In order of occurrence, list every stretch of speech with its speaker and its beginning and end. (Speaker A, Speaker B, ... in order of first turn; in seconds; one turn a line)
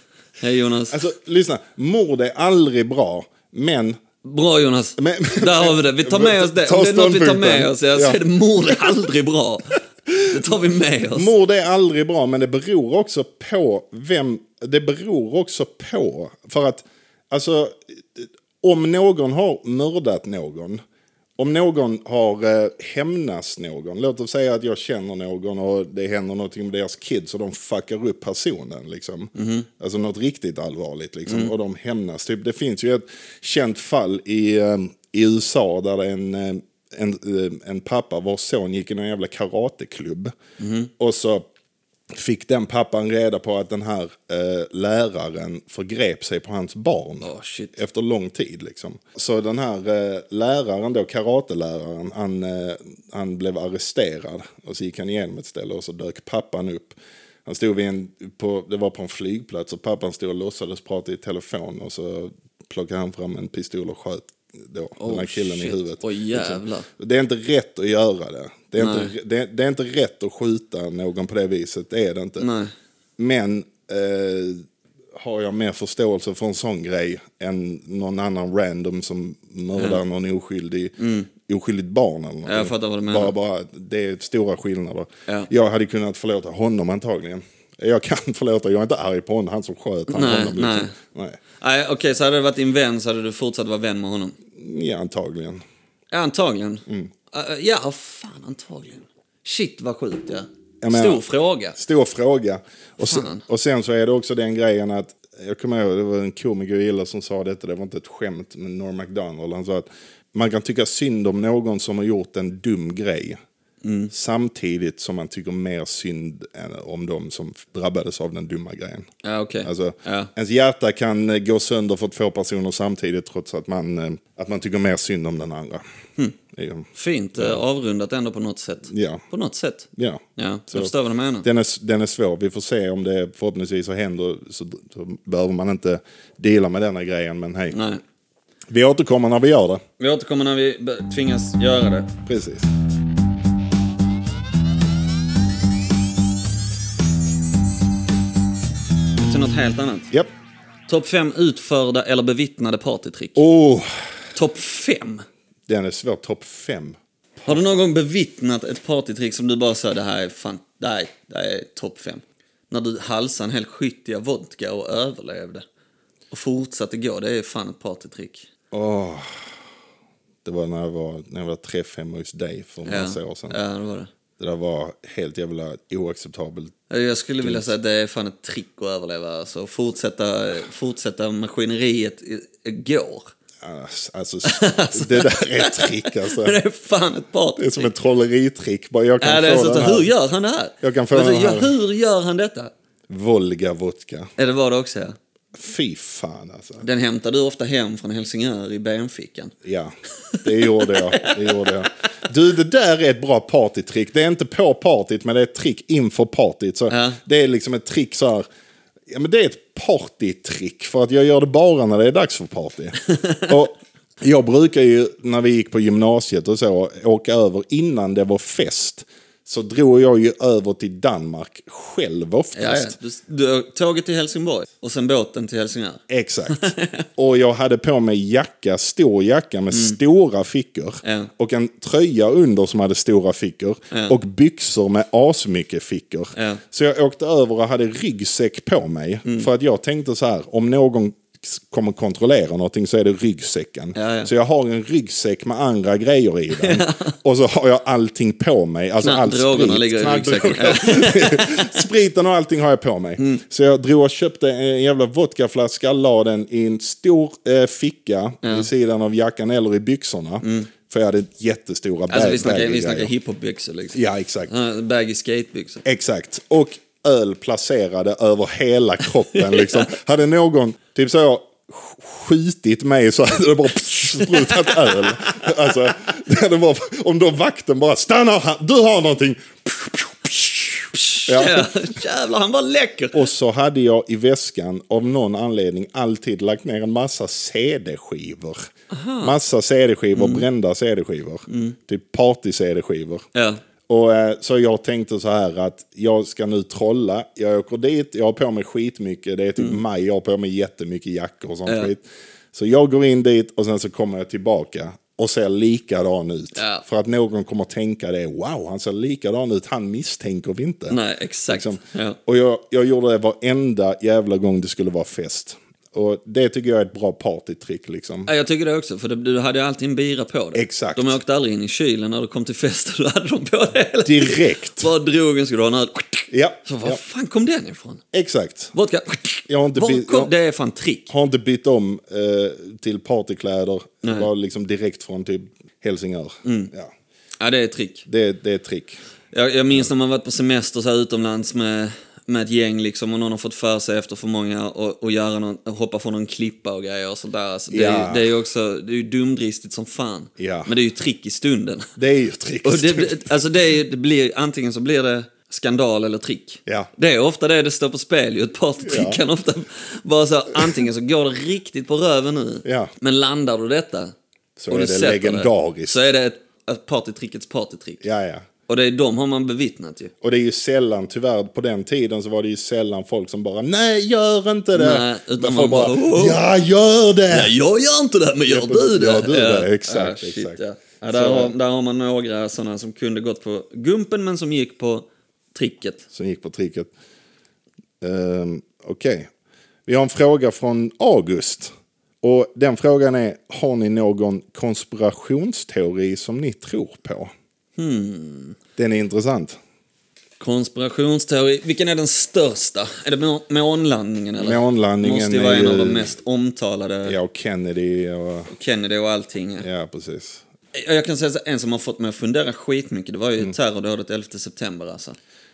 Speaker A: 0.4-1.0
Speaker B: 0.9-4.0
Speaker A: 4.2-11.3
Speaker B: 5.0-9.0
Speaker B: 10.1-10.6
Speaker B: 11.1-20.8
Speaker B: 21.4-40.3
Speaker A: 29.4-29.7
Speaker A: 31.3-31.5
Speaker A: 40.6-40.9
Speaker B: 41.0-41.5
Speaker B: 42.1-72.5
Speaker A: 47.2-47.8
Speaker A: 65.0-66.9
Speaker A: 68.8-69.1
Speaker A: 72.4-72.7
Speaker B: 73.2-91.4
Speaker A: 79.8-80.0
Speaker A: 81.0-81.3
Speaker A: 82.5-83.3
Speaker A: 90.1-91.0
Speaker A: 91.6-94.4
Speaker B: 94.5-95.6
Speaker A: 96.1-101.8
Speaker B: 100.8-101.2
Speaker B: 101.8-113.4
Speaker A: 103.0-103.4
Speaker A: 113.8-114.1
Speaker B: 114.1-119.1
Speaker A: 119.2-120.3
Speaker B: 119.6-125.8
Speaker B: 126.5-127.6
Speaker A: 126.9-131.5
Speaker B: 128.9-129.2
Speaker B: 130.0-137.8
Speaker A: 137.7-138.0
Speaker B: 138.7-139.8
Speaker A: 140.0-142.1
Speaker B: 142.2-142.7
Speaker A: 149.2-150.1
Speaker A: 150.9-153.4
Speaker B: 153.4-153.9
Speaker A: 154.3-155.2
Speaker B: 155.7-157.8
Speaker A: 157.5-165.6
Speaker A: 166.3-168.5
Speaker B: 168.7-169.4
Speaker B: 170.4-173.6
Speaker A: 172.8-174.1
Speaker B: 174.4-176.8
Speaker A: 176.9-183.3
Speaker B: 177.4-177.7
Speaker B: 183.6-186.6
Speaker A: 184.4-187.9
Speaker B: 187.6-190.1
Speaker A: 189.2-192.7
Speaker B: 190.8-191.7
Speaker B: 193.1-194.3
Speaker A: 194.4-195.2
Speaker B: 195.5-196.8
Speaker A: 196.8-199.5
Speaker B: 199.6-208.4
Speaker A: 200.3-201.9
Speaker A: 206.9-207.2
Speaker B: 209.1-223.0
Speaker A: 213.1-213.5
Speaker A: 222.5-227.1
Speaker B: 226.1-263.1
Speaker A: 229.7-230.0
Speaker A: 231.0-231.3
Speaker A: 233.9-234.2
Speaker A: 236.3-236.6
Speaker A: 244.0-244.3
Speaker A: 246.6-247.1
Speaker A: 249.0-251.8
Speaker A: 253.2-253.4
Speaker A: 258.4-258.7
Speaker A: 260.4-260.7
Speaker A: 262.1-265.8
Speaker B: 263.9-264.5
Speaker B: 265.9-281.8
Speaker A: 269.3-269.9
Speaker A: 274.2-275.5
Speaker A: 280.9-283.3
Speaker B: 283.1-288.7
Speaker A: 288.9-289.4
Speaker B: 289.2-293.2
Speaker A: 290.1-290.5
Speaker A: 291.5-291.8
Speaker A: 293.4-293.6
Speaker B: 293.9-311.0
Speaker A: 306.5-306.8
Speaker A: 310.9-312.2
Speaker B: 311.5-318.3
Speaker A: 318.3-328.0
Speaker B: 320.5-321.1
Speaker B: 324.0-324.9
Speaker B: 326.3-327.0
Speaker B: 328.1-328.7
Speaker A: 328.7-331.1
Speaker B: 329.5-330.3
Speaker B: 331.1-336.9
Speaker A: 334.0-334.3
Speaker A: 336.4-336.7
Speaker A: 337.4-338.1
Speaker B: 338.1-339.0
Speaker A: 339.3-351.9
Speaker B: 347.7-348.3
Speaker B: 350.4-350.7
Speaker B: 352.0-353.3
Speaker A: 352.6-364.1
Speaker B: 358.8-359.2
Speaker B: 362.6-362.9
Speaker B: 364.6-366.0
Speaker A: 364.7-368.0
Speaker B: 368.0-368.5
Speaker A: 368.7-370.1
Speaker B: 370.2-377.5
Speaker A: 374.8-376.4
Speaker A: 377.3-386.0
Speaker B: 378.5-381.5
Speaker B: 386.1-386.9
Speaker B: 388.0-389.3
Speaker B: 389.9-397.3
Speaker A: 397.8-398.6
Speaker B: 398.8-399.6
Speaker A: 400.4-407.2
Speaker B: 404.4-406.1
Speaker B: 407.0-408.5
Speaker A: 408.5-409.7
Speaker B: 409.6-410.4
Speaker A: 410.7-415.2